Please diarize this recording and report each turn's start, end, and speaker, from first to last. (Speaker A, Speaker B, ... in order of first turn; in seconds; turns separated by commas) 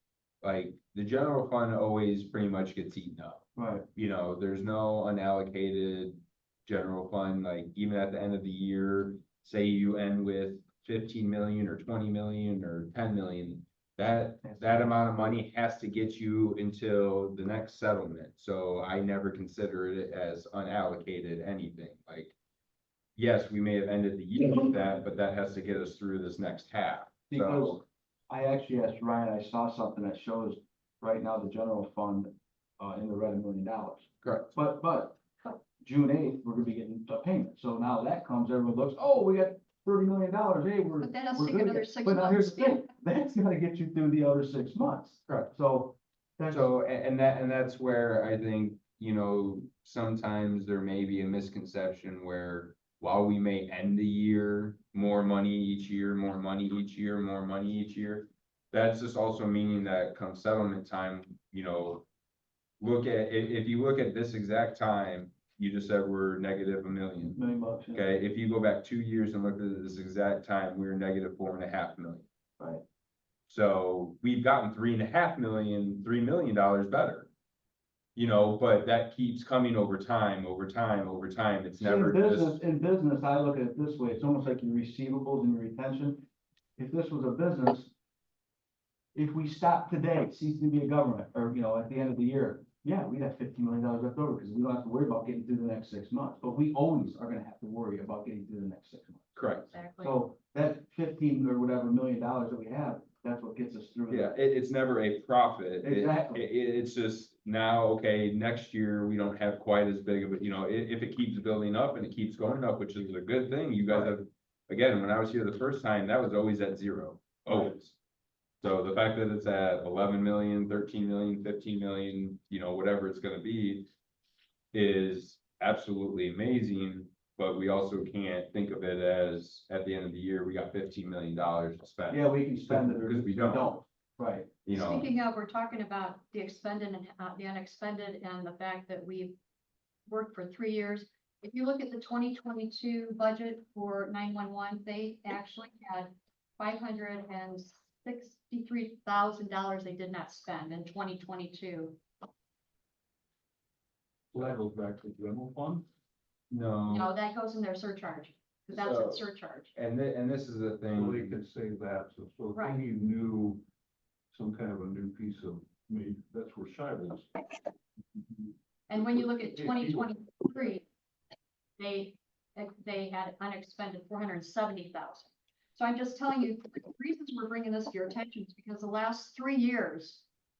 Speaker A: 0.4-22.4, Speaker B: 3.6-3.9, Speaker B: 14.4-15.4, Speaker A: 23.2-27.8, Speaker B: 27.3-46.7, Speaker A: 34.2-34.5, Speaker C: 41.0-42.9, Speaker A: 45.3-45.5, Speaker A: 46.5-62.1, Speaker A: 62.8-67.4, Speaker B: 67.3-68.0, Speaker A: 67.9-72.3, Speaker A: 73.5-77.3, Speaker A: 78.2-82.6, Speaker B: 81.8-86.2, Speaker B: 86.8-87.9, Speaker B: 89.2-104.3, Speaker A: 99.3-99.7, Speaker C: 99.7-100.2, Speaker A: 104.1-118.0, Speaker B: 105.8-106.4, Speaker B: 117.5-117.8, Speaker A: 118.6-123.9, Speaker A: 124.7-133.7, Speaker B: 132.1-134.7, Speaker A: 134.7-135.1, Speaker C: 134.7-139.4, Speaker C: 140.1-152.0, Speaker D: 154.3-155.9, Speaker A: 156.5-157.1, Speaker C: 156.9-159.7, Speaker A: 158.7-161.4, Speaker D: 160.9-163.6, Speaker C: 162.5-162.8, Speaker D: 164.3-167.3, Speaker C: 168.9-170.9, Speaker D: 169.4-170.0, Speaker C: 171.8-180.2